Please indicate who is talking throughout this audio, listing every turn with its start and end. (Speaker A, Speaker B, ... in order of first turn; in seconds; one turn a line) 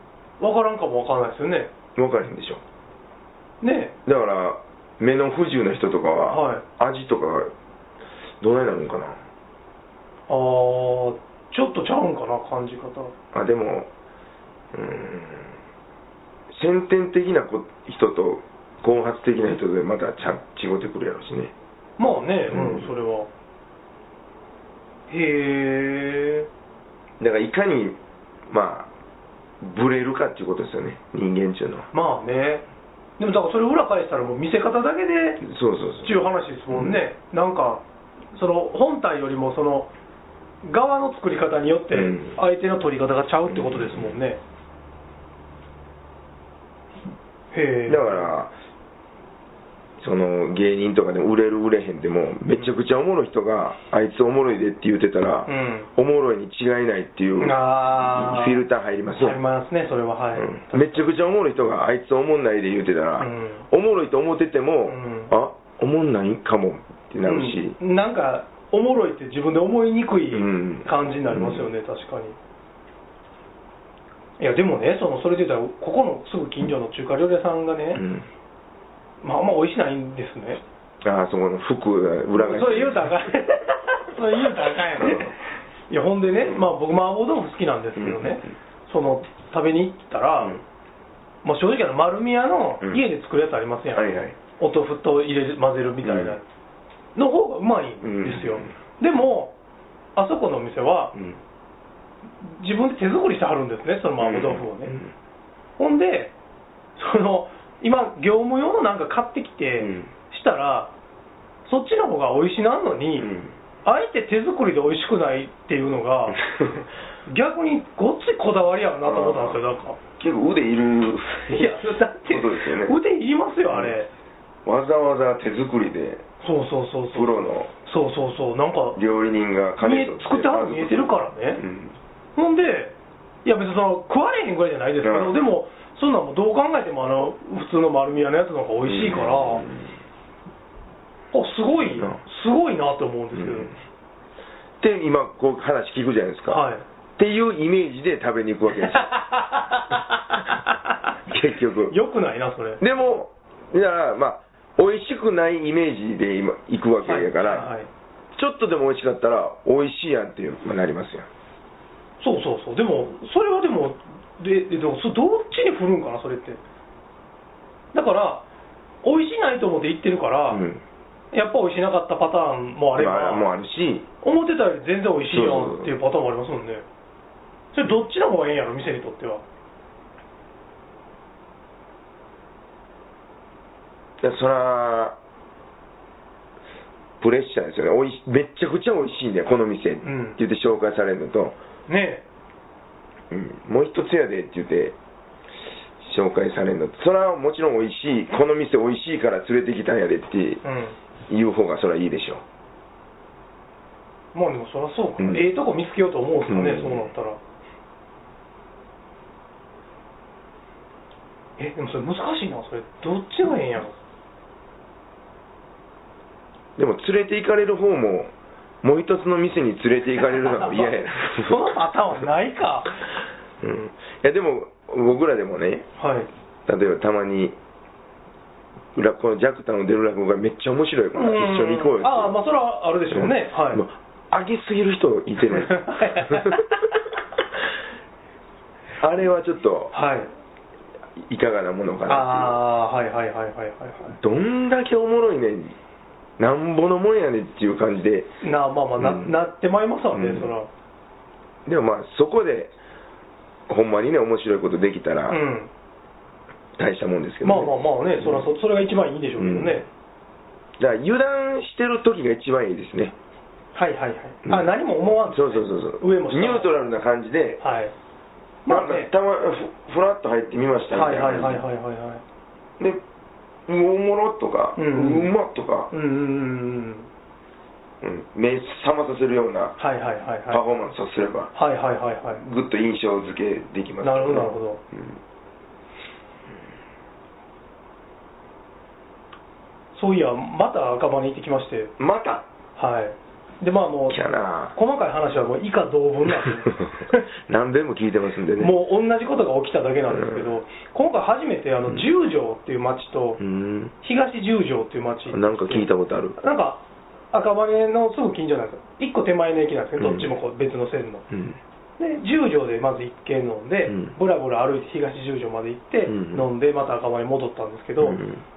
Speaker A: 0.4-1.7
Speaker B: 2.0-2.6
Speaker A: 3.6-4.0
Speaker B: 4.1-7.5
Speaker A: 6.3-6.6
Speaker B: 8.4-9.2
Speaker A: 10.3-13.1
Speaker B: 13.3-13.9
Speaker B: 14.7-15.5
Speaker B: 16.5-21.5
Speaker A: 22.0-23.3
Speaker B: 22.5-22.9
Speaker A: 25.1-26.5
Speaker B: 27.2-28.0
Speaker B: 28.5-28.9
Speaker B: 29.6-31.9
Speaker A: 31.9-32.6
Speaker A: 33.2-35.4
Speaker B: 35.4-37.0
Speaker A: 36.0-39.9
Speaker A: 40.6-44.4
Speaker B: 41.9-42.4
Speaker B: 43.5-44.1
Speaker A: 47.5-48.3
Speaker B: 47.9-48.5
Speaker B: 50.0-59.4
Speaker A: 55.5-55.9
Speaker A: 57.4-58.6
Speaker A: 59.2-61.1
Speaker B: 60.4-67.8
Speaker A: 63.2-63.6
Speaker A: 64.9-65.3
Speaker A: 67.2-72.4
Speaker B: 70.3-71.7
Speaker A: 74.4-78.0
Speaker B: 78.0-78.3
Speaker A: 79.2-80.6
Speaker B: 81.0-83.3
Speaker A: 82.3-85.4
Speaker B: 85.0-85.3
Speaker A: 85.9-90.6
Speaker B: 88.0-88.4
Speaker A: 91.4-96.4
Speaker B: 93.9-94.4
Speaker B: 96.0-96.3
Speaker A: 97.2-99.5
Speaker B: 98.0-98.7
Speaker A: 100.2-101.2
Speaker A: 102.4-105.0
Speaker B: 104.2-105.1
Speaker A: 105.8-106.3
Speaker A: 107.0-110.9
Speaker B: 109.8-110.1
Speaker A: 111.7-113.3
Speaker B: 113.2-113.5
Speaker A: 113.8-116.5
Speaker A: 117.3-120.0
Speaker B: 119.0-119.6
Speaker B: 120.2-121.8
Speaker A: 121.5-124.1
Speaker B: 122.3-123.0
Speaker B: 124.7-126.2
Speaker A: 126.4-129.0
Speaker B: 127.1-127.7
Speaker B: 128.9-131.9
Speaker A: 129.8-131.6
Speaker A: 132.4-139.6
Speaker B: 135.0-135.4
Speaker B: 138.9-139.9
Speaker A: 141.3-143.7
Speaker B: 143.3-143.7
Speaker B: 144.8-146.6
Speaker A: 146.5-146.8
Speaker B: 147.2-149.1
Speaker A: 148.9-150.8
Speaker B: 151.3-152.0
Speaker A: 151.9-152.8
Speaker B: 152.8-157.7
Speaker A: 157.0-157.9
Speaker B: 158.4-161.3
Speaker A: 162.2-166.6
Speaker A: 167.9-168.4
Speaker A: 169.0-170.7
Speaker B: 170.5-170.8
Speaker A: 171.3-173.5
Speaker B: 172.9-174.1
Speaker A: 174.2-176.8
Speaker B: 175.3-175.9
Speaker A: 177.7-179.4
Speaker B: 184.2-185.2
Speaker B: 187.2-191.6
Speaker A: 190.0-190.4
Speaker A: 191.9-192.2
Speaker B: 193.3-195.0
Speaker B: 196.0-200.6
Speaker A: 200.6-200.9
Speaker B: 201.3-202.4
Speaker A: 204.3-207.4
Speaker B: 205.2-205.5
Speaker B: 206.5-207.1
Speaker A: 211.6-214.0
Speaker B: 216.8-218.3
Speaker B: 218.8-221.8
Speaker A: 220.5-223.0
Speaker B: 223.6-225.9
Speaker A: 226.0-226.3
Speaker B: 226.7-227.6
Speaker B: 228.9-232.3
Speaker A: 231.2-233.8
Speaker B: 233.1-236.7
Speaker A: 235.4-236.8
Speaker B: 239.0-239.9
Speaker A: 239.9-240.3
Speaker B: 241.2-242.6
Speaker A: 242.1-244.2
Speaker B: 244.2-245.8
Speaker B: 246.4-248.3
Speaker A: 248.4-250.7
Speaker B: 249.0-249.3
Speaker B: 250.1-250.5
Speaker B: 251.7-252.7
Speaker B: 253.7-255.4
Speaker A: 255.3-255.7
Speaker B: 256.8-258.5
Speaker A: 257.4-259.9
Speaker B: 259.4-259.8
Speaker B: 260.8-263.1
Speaker A: 263.8-266.7
Speaker B: 265.3-267.6
Speaker A: 267.6-267.9
Speaker A: 268.7-269.1
Speaker B: 268.7-271.6
Speaker A: 270.9-272.2
Speaker B: 273.7-275.9
Speaker A: 274.8-275.3
Speaker A: 275.9-277.1
Speaker B: 278.0-279.8
Speaker A: 279.8-280.6
Speaker B: 280.5-281.5
Speaker A: 281.5-282.4
Speaker B: 282.3-285.2
Speaker A: 284.0-284.8
Speaker A: 289.9-291.9
Speaker B: 292.0-292.5
Speaker A: 292.8-294.2
Speaker B: 294.1-294.7
Speaker A: 294.7-297.2
Speaker B: 296.8-298.8
Speaker A: 298.6-303.4
Speaker B: 300.1-300.5
Speaker B: 303.4-303.9
Speaker A: 304.0-305.9
Speaker B: 305.3-306.4
Speaker A: 306.4-311.2
Speaker B: 310.0-310.3
Speaker B: 311.3-311.6
Speaker A: 312.0-318.2
Speaker B: 313.9-314.1
Speaker B: 316.1-316.5
Speaker B: 318.0-318.4